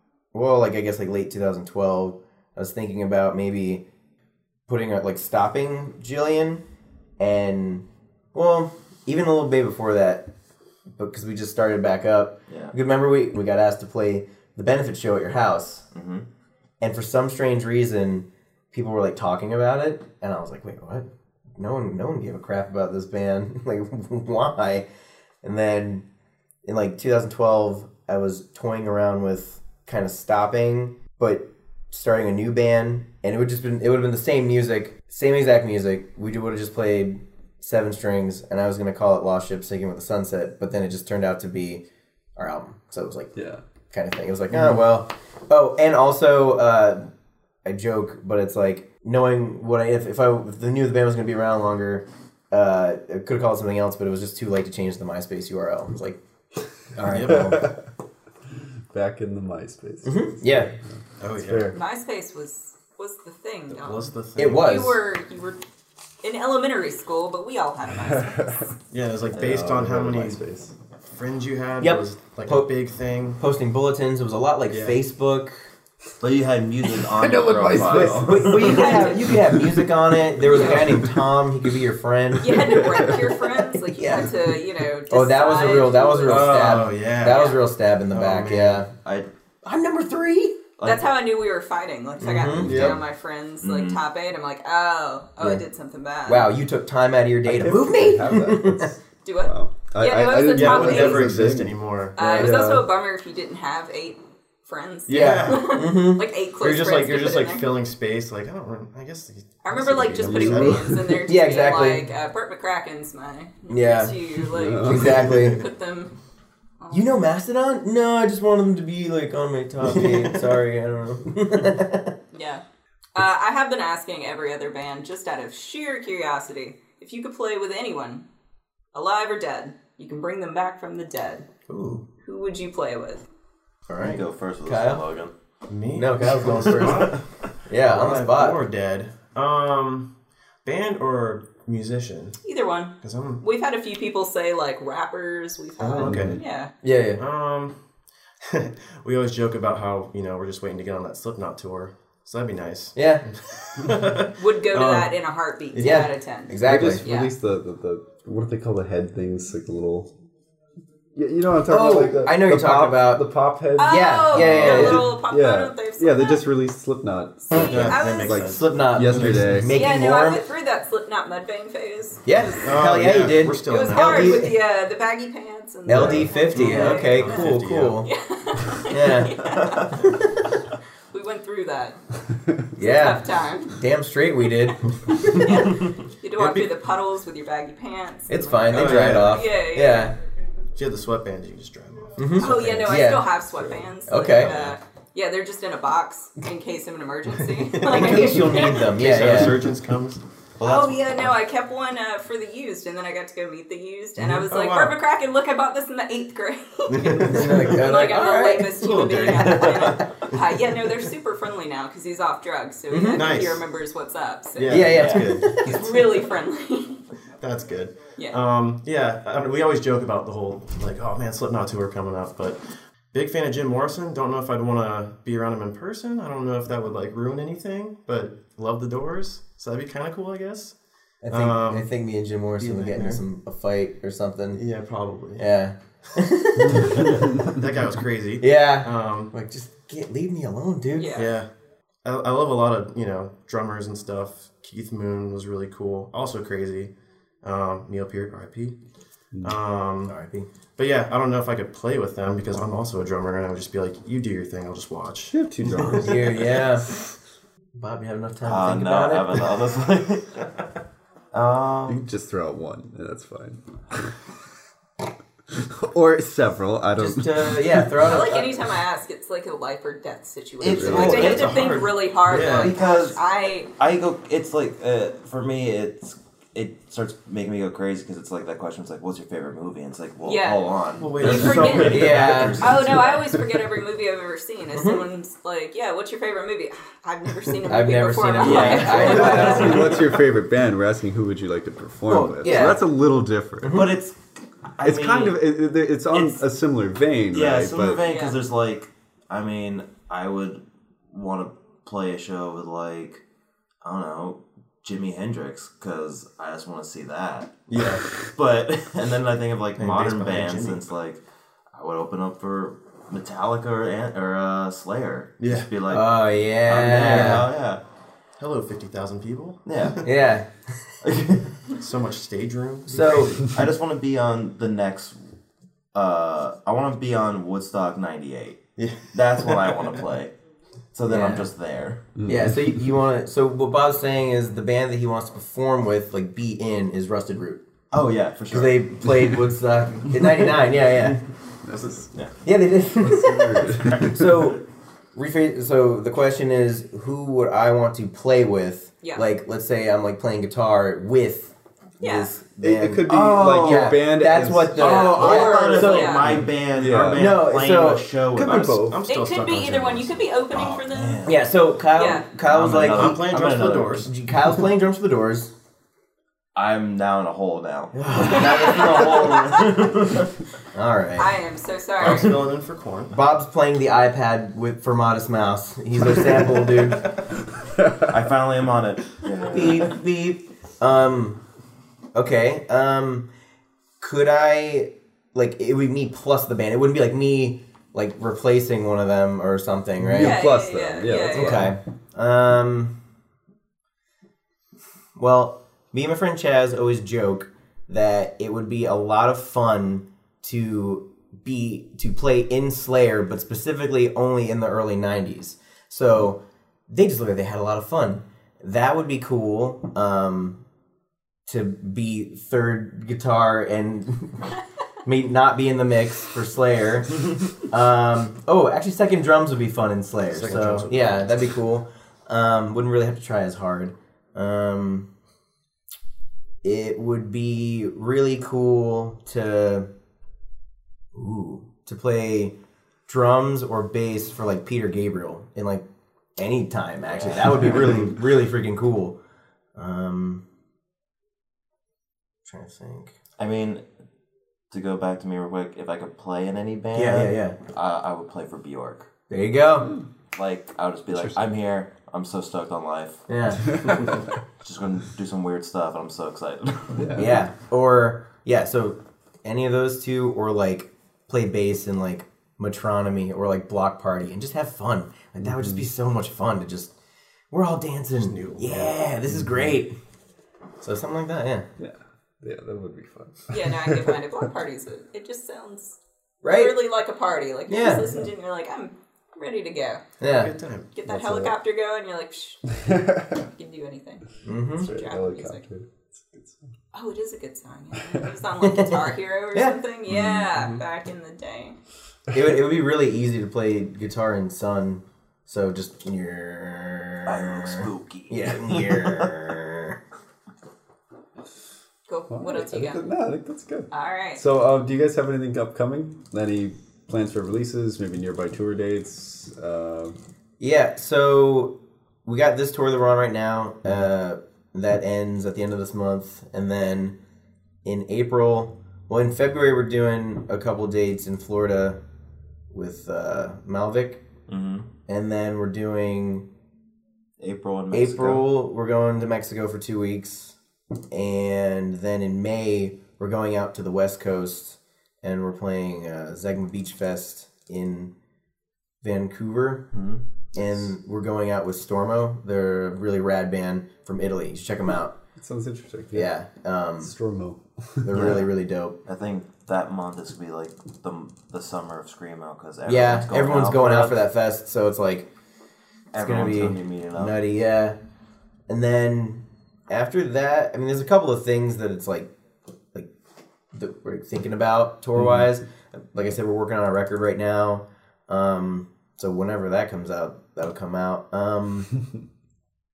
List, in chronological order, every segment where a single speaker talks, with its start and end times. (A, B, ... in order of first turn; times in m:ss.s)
0:00.3-0:03.8 A
0:04.7-0:06.6 A
0:07.2-0:10.3 A
0:11.0-0:15.9 A
0:12.5-0:12.7 B
0:15.9-0:16.3 B
0:16.8-0:24.9 A
0:25.4-0:26.1 A
0:26.6-0:41.8 A
0:42.4-0:43.3 A
0:43.4-0:43.6 C
0:43.9-0:47.1 A
0:47.6-0:56.2 A
0:56.9-0:57.7 A
0:57.1-0:57.5 D
0:57.2-0:57.8 C
0:58.9-1:00.8 C
1:00.0-1:00.7 A
1:01.2-1:01.7 D
1:01.4-1:01.8 C
1:01.7-1:05.6 E
1:03.7-1:04.8 D
1:04.4-1:05.0 A
1:06.2-1:08.7 E
1:08.0-1:08.7 C
1:08.9-1:10.4 D
1:09.3-1:10.7 C
1:11.1-1:13.4 D
1:11.8-1:12.7 A
1:13.4-1:15.7 A
1:14.7-1:15.0 D
1:16.2-1:19.0 B
1:17.0-1:19.8 C
1:18.0-1:22.9 A
1:18.5-1:19.3 E
1:20.5-1:20.9 E
1:20.7-1:21.2 C
1:22.4-1:27.6 E
1:22.6-1:22.9 C
1:23.8-1:24.5 A
1:25.1-1:28.9 A
1:26.3-1:27.5 D
1:28.1-1:28.9 D
1:29.0-1:29.3 B
1:29.6-1:30.6 A
1:30.8-1:31.1 B
1:30.8-1:36.5 E
1:32.2-1:33.0 A
1:32.5-1:33.0 C
1:33.6-1:34.0 B
1:36.3-1:39.0 A
1:37.4-1:42.9 C
1:39.2-1:41.3 E
1:40.5-1:42.2 D
1:42.2-1:47.7 E
1:42.2-1:42.7 A
1:45.1-1:45.9 D
1:45.1-1:46.3 A
1:46.6-1:51.1 D
1:49.6-1:56.1 E
1:50.2-1:50.8 C
1:51.0-1:52.1 A
1:53.7-1:54.3 A
1:54.4-1:55.2 C
1:54.8-1:55.6 A
1:55.1-1:55.6 D
1:56.8-1:57.2 E
1:56.9-2:02.2 A
2:02.3-2:02.6 E
2:03.2-2:08.3 E
2:08.9-2:11.5 E
2:11.7-2:12.0 A
2:11.7-2:12.0 D
2:12.2-2:13.2 E
2:13.9-2:15.0 A
2:14.0-2:15.3 B
2:15.7-2:17.2 D
2:16.0-2:18.6 A
2:17.8-2:20.1 D
2:20.6-2:22.4 D
2:22.4-2:26.7 E
2:23.0-2:23.4 D
2:25.8-2:26.4 D
2:26.8-2:27.2 A
2:27.2-2:27.8 D
2:28.4-2:35.1 D
2:33.0-2:33.3 A
2:34.4-2:37.3 E
2:35.7-2:36.0 D
2:35.8-2:37.0 A
2:36.6-2:40.1 C
2:41.2-2:49.8 C
2:41.7-2:45.1 A
2:43.8-2:46.5 E
2:47.5-2:48.4 E
2:47.5-2:49.6 D
2:48.3-2:50.4 A
2:49.7-2:52.7 E
2:52.2-2:54.5 A
2:52.6-2:54.5 D
2:53.7-2:57.5 E
2:55.9-2:58.1 A
2:55.9-2:56.3 C
2:56.0-2:58.0 D
2:58.0-3:00.1 E
2:58.9-3:00.5 A
3:01.1-3:02.0 E
3:02.8-3:05.7 A
3:02.8-3:03.8 E
3:05.1-3:10.1 E
3:06.4-3:06.7 D
3:08.3-3:10.2 A
3:08.7-3:09.4 D
3:10.7-3:13.0 D
3:12.2-3:13.3 A
3:12.4-3:18.9 E
3:14.1-3:14.7 A
3:14.4-3:14.7 D
3:17.5-3:21.3 D
3:17.9-3:19.6 A
3:20.6-3:37.0 E
3:24.2-3:25.0 D
3:26.9-3:27.6 D
3:27.2-3:28.7 A
3:28.8-3:30.5 D
3:32.9-3:33.4 A
3:33.1-3:33.6 D
3:34.6-3:35.6 D
3:34.7-3:36.1 A
3:34.8-3:35.2 B
3:37.4-3:42.6 D
3:43.1-3:50.8 D
3:51.2-3:54.6 A
3:51.3-3:51.9 D
3:52.6-3:53.2 D
3:54.5-3:55.4 D
3:55.4-3:57.3 A
3:57.2-3:59.3 D
3:58.4-4:01.2 A
4:01.0-4:01.4 E
4:01.2-4:01.5 D
4:02.0-4:06.9 D
4:07.4-4:08.8 D
4:09.4-4:10.2 D
4:10.1-4:10.5 A
4:10.8-4:16.0 D
4:15.3-4:16.4 C
4:15.8-4:17.0 A
4:17.8-4:19.5 A
4:18.4-4:20.6 B
4:21.3-4:22.0 B
4:21.9-4:24.1 C
4:25.5-4:28.1 C
4:27.0-4:28.8 A
4:28.0-4:33.7 E
4:30.6-4:43.3 B
4:30.6-4:31.4 C
4:30.9-4:32.8 D
4:40.2-4:49.9 E
4:41.0-4:42.7 D
4:41.8-4:42.7 A
4:44.8-4:45.0 A
4:47.7-4:50.0 A
4:48.4-4:50.0 B
4:48.9-4:53.9 C
4:52.1-4:52.9 A
4:53.6-4:54.0 A
4:53.7-4:54.2 B
4:54.7-4:55.4 B
4:54.8-4:58.0 C
4:56.1-4:56.4 B
4:57.3-5:03.2 B
4:58.0-4:58.4 E
5:03.8-5:07.6 B
5:07.7-5:08.1 D
5:08.2-5:11.2 B
5:09.8-5:10.8 D
5:11.7-5:17.8 B
5:15.4-5:15.7 D
5:15.9-5:17.5 A
5:16.9-5:17.5 D
5:18.4-5:20.0 D
5:19.7-5:20.1 B
5:20.0-5:21.0 A
5:21.0-5:21.5 B
5:21.8-5:23.4 D
5:22.9-5:23.4 A
5:23.3-5:25.3 B
5:25.9-5:28.6 B
5:28.8-5:30.0 D
5:29.1-5:30.3 B
5:30.9-5:32.0 B
5:31.1-5:31.5 A
5:32.2-5:32.6 C
5:32.2-5:37.6 A
5:37.9-5:38.9 B
5:38.5-5:41.2 A
5:41.7-5:42.0 C
5:42.1-5:42.3 B
5:42.4-5:44.6 A
5:43.0-5:44.3 C
5:45.2-5:56.5 A
5:52.0-5:52.3 E
5:52.6-5:57.4 C
5:53.0-5:54.0 B
5:54.7-5:58.9 B
5:55.0-5:56.4 E
5:57.1-5:58.1 A
5:58.3-5:59.0 C
5:58.7-6:00.2 D
5:59.0-6:01.4 E
6:00.5-6:01.4 B
6:01.2-6:05.5 A
6:02.0-6:02.3 E
6:02.5-6:04.0 B
6:02.6-6:04.1 D
6:06.6-6:10.3 B
6:07.9-6:09.3 A
6:08.3-6:09.8 E
6:10.7-6:11.3 A
6:11.2-6:12.4 E
6:12.0-6:13.2 D
6:13.1-6:17.1 A
6:17.8-6:18.1 C
6:18.1-6:20.0 B
6:19.5-6:21.4 A
6:22.1-6:23.3 A
6:24.0-6:30.4 A
6:30.0-6:31.8 C
6:30.2-6:31.7 E
6:31.1-6:33.0 A
6:35.2-6:50.6 A
6:51.5-6:54.5 A
6:55.0-7:05.1 A
7:00.3-7:01.4 D
7:06.6-7:09.9 A
7:11.1-7:12.6 A
7:13.1-7:15.8 A
7:16.4-7:19.2 A
7:17.1-7:17.5 B
7:19.8-7:20.4 A
7:22.5-7:23.1 A
7:23.4-7:23.8 B
7:24.7-7:29.1 B
7:26.9-7:27.6 A
7:29.3-7:29.9 A
7:30.3-7:37.1 B
7:31.1-7:31.4 C
7:33.3-7:33.9 A
7:36.9-7:37.4 C
7:37.2-7:46.9 A
7:45.5-7:45.8 C
7:47.5-7:49.9 A
7:48.2-7:49.0 D
7:50.8-7:51.7 A
7:51.8-7:54.1 C
7:53.5-8:00.0 E
7:56.4-7:56.8 A
7:57.7-7:58.1 A
8:00.2-8:00.5 A
8:00.2-8:01.6 D
8:00.9-8:04.2 E
8:02.8-8:03.4 C
8:04.4-8:04.9 A
8:04.8-8:06.7 C
8:04.8-8:05.6 E
8:06.9-8:11.8 E
8:08.6-8:09.8 A
8:10.1-8:10.5 B
8:12.3-8:20.0 A
8:17.3-8:19.3 B
8:22.1-8:23.0 E
8:22.3-8:30.2 C
8:23.9-8:24.4 E
8:30.6-8:37.2 A
8:37.8-8:42.0 A
8:42.7-8:44.2 A
8:44.5-8:44.9 B
8:45.1-8:46.5 A
8:47.4-8:48.4 B
8:47.9-8:50.6 A
8:51.1-8:58.1 A
8:59.0-8:59.9 A
8:59.9-9:00.2 B
9:00.6-9:05.2 A
9:05.4-9:06.3 C
9:06.1-9:07.1 A
9:07.0-9:08.5 C
9:08.0-9:09.0 A
9:09.0-9:14.2 B
9:12.9-9:15.3 A
9:16.1-9:17.4 B
9:16.2-9:18.0 A
9:18.7-9:22.3 A
9:23.7-9:32.0 A